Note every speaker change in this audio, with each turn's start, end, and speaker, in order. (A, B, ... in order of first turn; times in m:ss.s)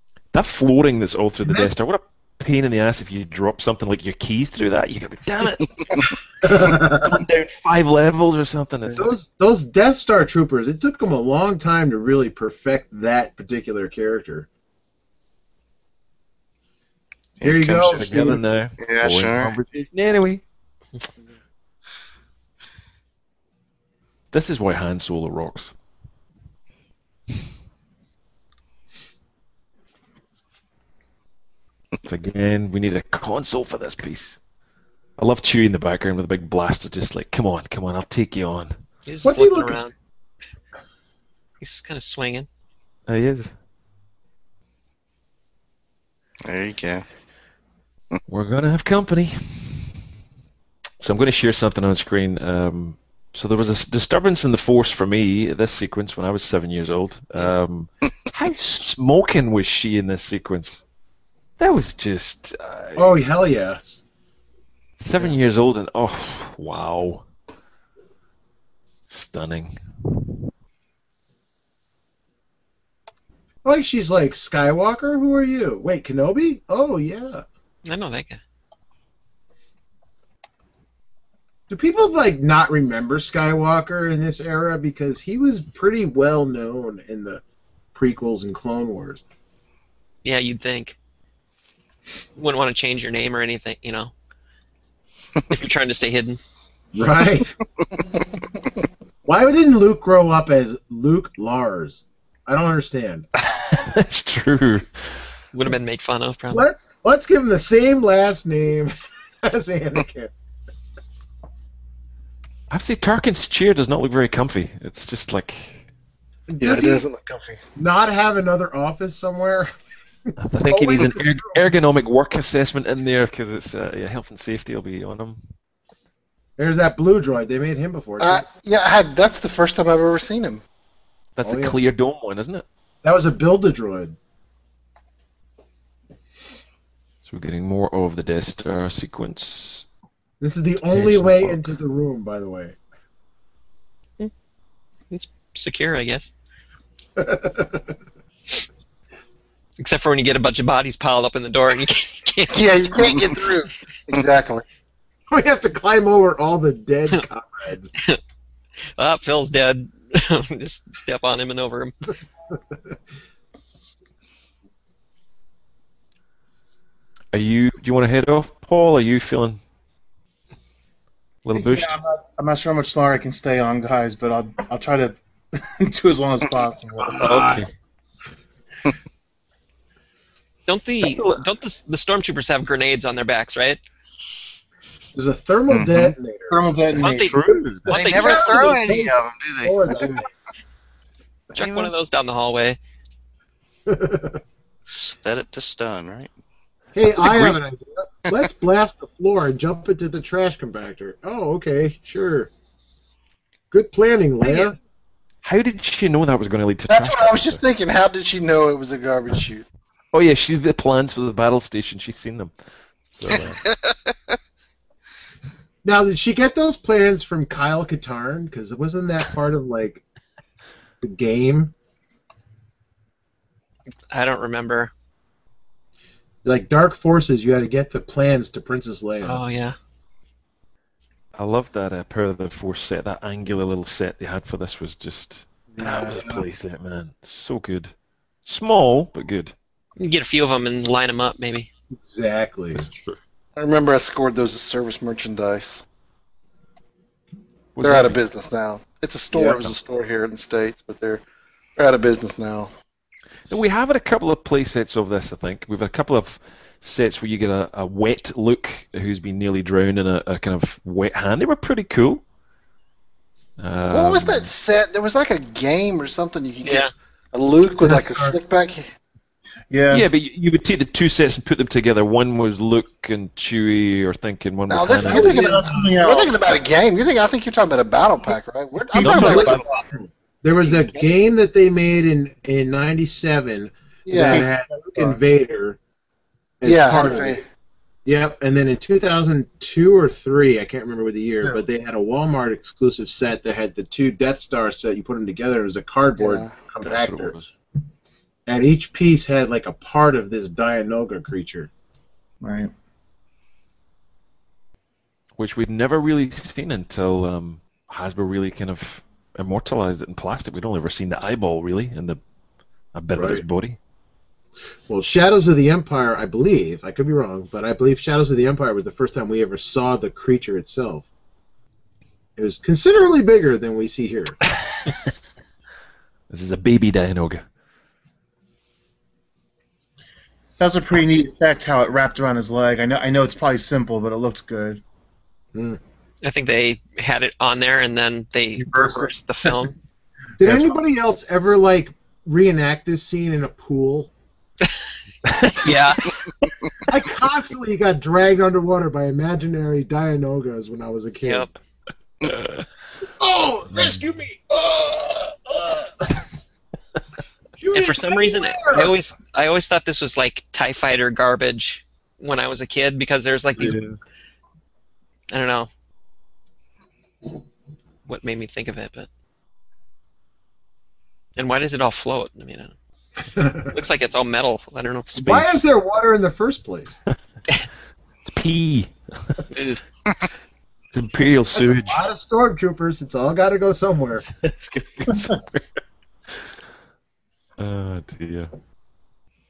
0:00.3-0:09.2 A
0:01.4-0:01.7 B
0:06.4-0:07.2 B
0:08.9-0:14.5 B
0:17.4-0:18.2 C
0:17.4-0:18.4 B
0:17.8-0:20.4 A
0:18.8-0:19.6 C
0:24.3-0:25.7 A
0:32.0-0:34.4 A
0:35.2-0:38.7 A
0:39.0-0:39.9 D
0:39.2-0:39.8 B
0:41.6-0:42.5 D
0:43.1-0:43.5 A
0:46.4-0:47.0 C
0:48.3-0:50.0 A
0:51.0-1:00.8 A
1:01.6-1:03.1 A
1:03.0-1:04.0 B
1:05.0-1:07.2 A
1:09.1-1:10.4 A
1:13.6-1:17.4 B
1:17.8-1:18.4 D
1:21.7-1:27.4 B
1:27.9-1:29.2 B
1:30.2-1:31.0 D
1:32.4-1:34.1 D
1:35.5-1:36.4 D
1:36.9-1:37.5 B
1:39.2-1:43.3 B
1:43.4-1:45.3 A
1:45.5-1:46.6 D
1:46.5-1:50.3 B
1:52.7-1:55.8 A
1:56.5-1:57.0 B
1:56.6-1:57.6 E
1:57.8-1:59.7 B
2:00.4-2:05.4 A
2:00.6-2:01.6 B
2:06.6-2:08.4 B
2:08.2-2:10.6 E
2:11.4-2:12.6 A
2:11.4-2:11.8 B
2:13.0-2:14.2 B
2:17.2-2:19.9 A
2:20.4-2:22.8 B
2:20.9-2:21.7 A
2:25.1-2:26.3 D
2:27.2-2:27.9 B
2:29.8-2:32.7 D
2:32.5-2:34.6 E
2:35.3-2:37.9 B
2:39.0-2:41.9 D
2:47.3-2:49.6 A
2:51.4-2:52.0 A
2:51.5-2:57.4 F
2:57.0-2:57.6 B
2:57.2-2:57.7 A
3:00.7-3:03.8 D
3:01.0-3:01.4 A
3:05.1-3:06.6 B
3:05.7-3:06.1 C
3:06.5-3:07.4 F
3:06.9-3:08.1 A
3:07.0-3:08.8 D
3:07.9-3:10.2 C
3:08.0-3:10.3 B
3:11.5-3:12.8 D
3:11.6-3:11.8 C
3:13.9-3:14.4 B
3:14.9-3:16.3 C
3:16.9-3:22.5 B
3:17.0-3:17.6 A
3:23.7-3:24.8 B
3:25.4-3:27.6 A
3:26.9-3:29.6 E
3:30.1-3:32.5 A
3:33.0-3:33.6 A
3:35.8-3:40.0 B
3:41.0-3:41.7 B
3:44.1-3:44.9 D
3:46.4-3:49.4 B
3:49.2-3:49.8 D
3:51.3-3:57.9 A
3:55.7-3:56.2 E
3:56.2-3:56.4 B
3:58.4-3:59.5 A
4:00.0-4:01.7 D
4:01.9-4:02.9 B
4:02.7-4:03.2 A
4:03.6-4:05.8 E
4:07.8-4:08.2 A
4:07.8-4:11.2 E
4:09.3-4:09.8 B
4:11.8-4:12.7 E
4:13.5-4:22.2 A
4:23.6-4:24.5 A
4:23.9-4:28.9 E
4:26.6-4:26.9 D
4:27.8-4:28.4 B
4:29.7-4:30.0 F
4:29.9-4:35.5 A
4:34.7-4:39.6 E
4:35.0-4:36.4 F
4:35.0-4:36.0 B
4:38.9-4:39.7 A
4:39.0-4:45.8 B
4:40.6-4:41.0 E
4:44.1-4:44.4 E
4:44.2-4:45.2 F
4:46.6-4:47.4 B
4:46.6-4:47.4 E
4:48.0-4:57.3 B
4:56.2-4:56.5 E
4:56.8-4:57.5 A
4:58.5-5:01.7 B
5:02.4-5:02.7 F
5:05.4-5:12.2 A
5:12.9-5:13.8 A
5:13.1-5:13.4 B
5:14.9-5:21.1 B
5:22.4-5:24.4 B
5:26.3-5:27.4 A
5:30.6-5:34.8 F
5:35.5-5:35.8 B
5:36.2-5:39.7 D
5:40.4-5:44.1 B
5:45.2-5:45.8 A
5:45.6-5:46.1 D
5:46.9-5:51.5 B
5:51.2-5:51.5 D
5:52.2-5:52.6 A
5:53.2-5:56.2 B
5:53.7-5:54.0 A
5:57.6-5:58.9 B
5:57.7-6:03.8 D
6:03.6-6:04.0 A
6:05.3-6:05.7 D
6:08.1-6:09.1 D
6:11.4-6:12.7 D
6:13.3-6:13.7 B
6:13.7-6:15.2 D
6:15.1-6:17.0 B
6:15.1-6:15.6 A
6:18.2-6:19.4 A
6:19.5-6:19.8 D
6:20.9-6:22.0 A
6:21.5-6:24.2 B
6:24.3-6:25.6 A
6:27.6-6:28.5 A